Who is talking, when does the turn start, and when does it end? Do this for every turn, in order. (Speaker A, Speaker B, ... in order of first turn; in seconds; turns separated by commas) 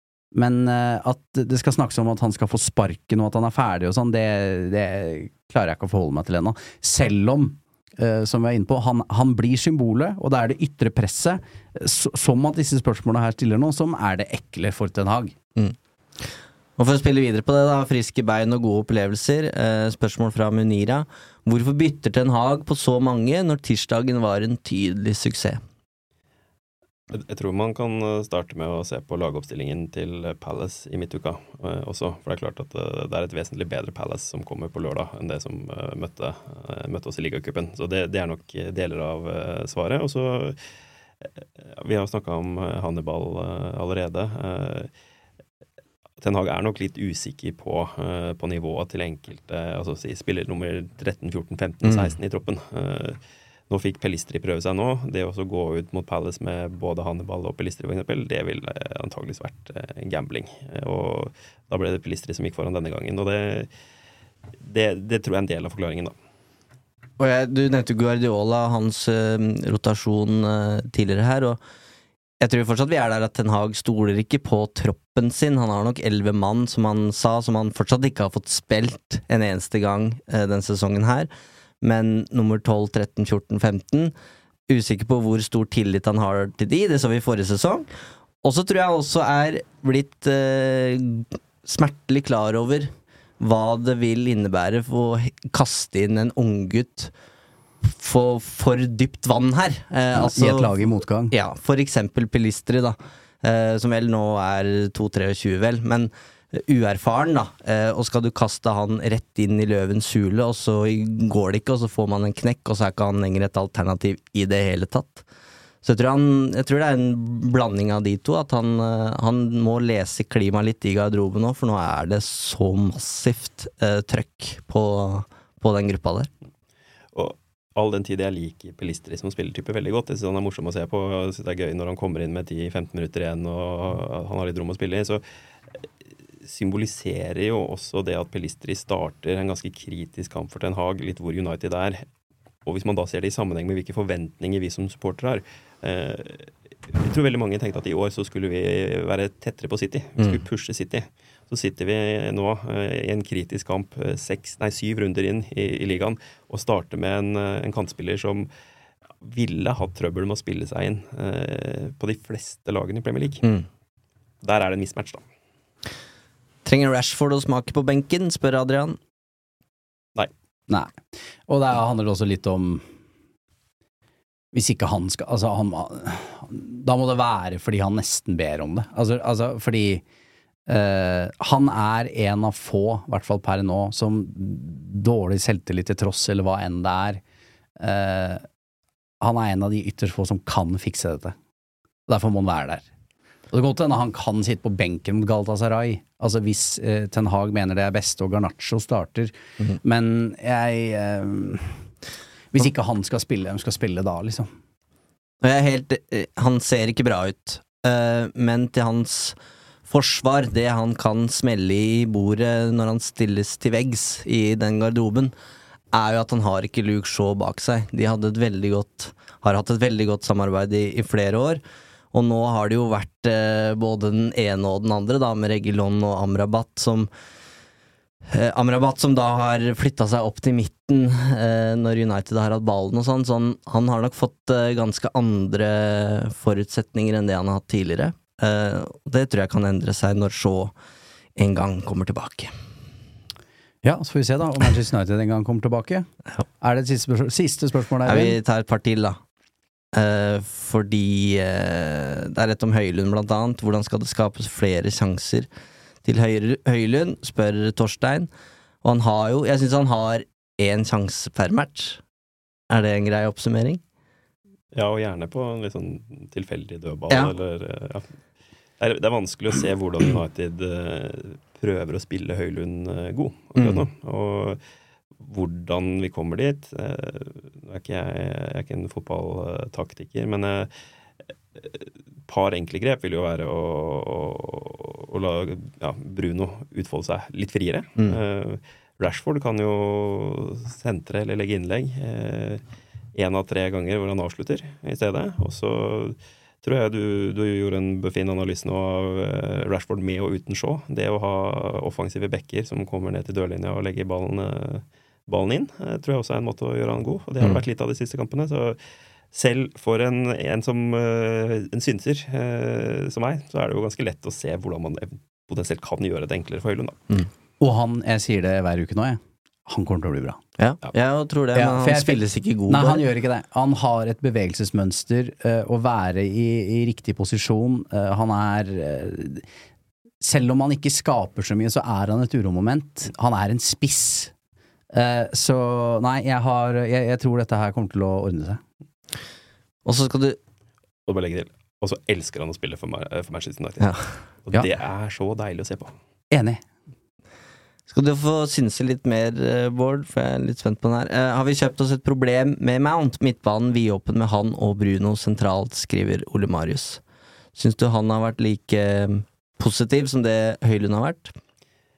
Speaker A: 0.3-15.3, Speaker B: 16.8-25.6, Speaker C: 27.1-40.6, Speaker C: 41.7-44.9, Speaker C: 46.2-53.2, Speaker B: 51.8-52.1, Speaker C: 53.7-63.7, Speaker C: 64.6-66.1, Speaker B: 67.2-71.6, Speaker B: 72.4-81.3, Speaker B: 81.8-84.1, Speaker B: 84.7-87.9, Speaker B: 88.4-97.1, Speaker B: 97.8-115.2, Speaker A: 100.2-101.3, Speaker B: 115.8-126.3, Speaker C: 127.1-135.2, Speaker C: 136.4-142.0, Speaker C: 142.7-158.5, Speaker C: 159.2-163.5, Speaker C: 164.4-165.2, Speaker B: 166.6-169.0, Speaker A: 170.7-170.9, Speaker A: 171.5-172.8, Speaker A: 174.5-180.0, Speaker A: 180.7-187.2, Speaker A: 187.8-188.4, Speaker A: 189.2-191.3, Speaker A: 192.1-192.8, Speaker A: 193.5-201.8, Speaker A: 202.5-204.5, Speaker B: 205.4-209.4, Speaker B: 209.9-215.3, Speaker B: 215.9-227.1, Speaker B: 228.3-240.7, Speaker B: 241.4-242.5, Speaker A: 243.8-246.1, Speaker A: 246.6-248.3, Speaker B: 248.1-249.2, Speaker B: 249.9-255.5, Speaker B: 256.0-258.3, Speaker B: 258.8-262.0, Speaker B: 262.7-263.8, Speaker C: 264.7-268.1, Speaker C: 268.8-274.6, Speaker B: 273.6-273.8, Speaker C: 275.2-280.7, Speaker C: 281.6-292.6, Speaker C: 293.1-308.8, Speaker C: 309.3-317.0, Speaker A: 317.6-320.4, Speaker B: 320.6-323.0, Speaker A: 321.5-329.4, Speaker A: 330.2-334.3, Speaker A: 334.9-338.6, Speaker B: 339.8-340.4, Speaker C: 341.1-345.9, Speaker A: 346.3-346.6, Speaker B: 347.9-357.0, Speaker B: 357.6-361.3